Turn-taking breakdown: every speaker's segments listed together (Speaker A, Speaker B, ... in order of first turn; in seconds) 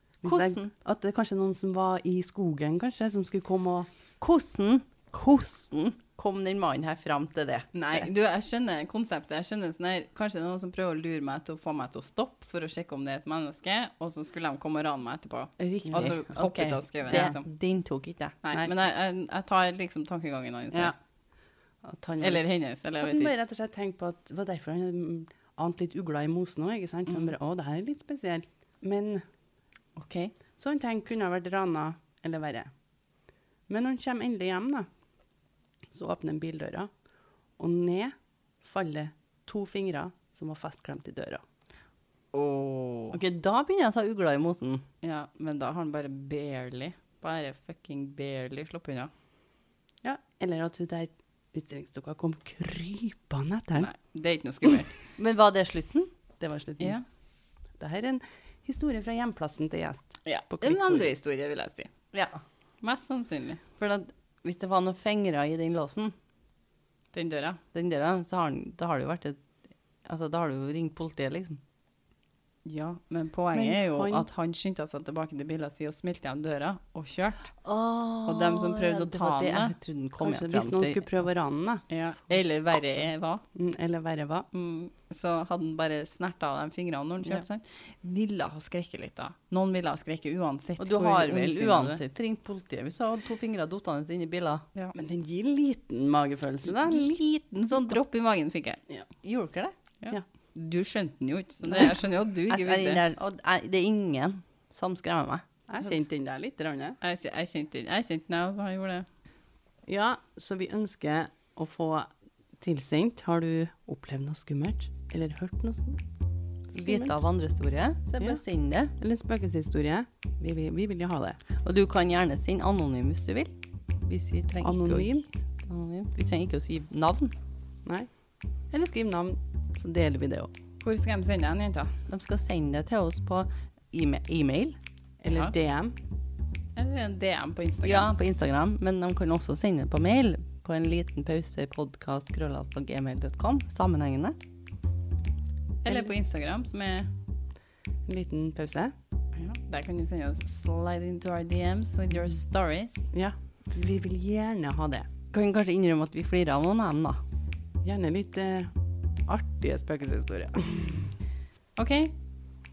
Speaker A: 0.2-3.9, 15.8-16.2, 17.1-17.4, 21.8-22.4, 23.0-29.2, 30.6-32.7, 33.7-34.9, 35.9-36.9, 37.6-41.4, 50.0-53.9, 56.4-57.0, 57.8-61.1, 73.5-74.3, 80.2-81.9, 83.5-84.5, 94.9-97.1, 105.7-107.0, 109.9-112.1, 112.6-116.0, 116.7-117.2, 119.0-121.5, 124.6-125.4, 128.7-130.5, 135.2-136.0, 145.9-146.1, 148.1-148.9, 153.1-155.2, 157.8-158.7, 159.3-161.1
Speaker B: 0.2-0.7, 4.2-8.1, 15.6-18.4, 43.1-44.8, 55.2-56.1, 62.1-62.4, 63.8-66.1, 67.7-69.4, 70.0-71.6, 77.6-81.1, 90.8-94.7, 99.2-99.7, 102.5-105.4, 116.7-118.9, 121.5-127.3, 132.1-134.8, 137.8-144.4, 155.3-157.2
Speaker C: 7.7-17.5, 18.4-20.9, 22.2-23.4, 42.3-43.2, 45.0-49.1, 53.8-55.0, 60.2-61.9, 62.8-63.6, 67.1-67.6, 72.7-77.5, 78.3-79.8, 81.9-83.4, 84.5-92.0, 96.8-98.8, 100.0-103.0, 107.0-109.1, 130.8-131.9, 135.3-135.5, 136.8-138.1, 145.8-147.1, 149.3-153.1, 161.8-162.2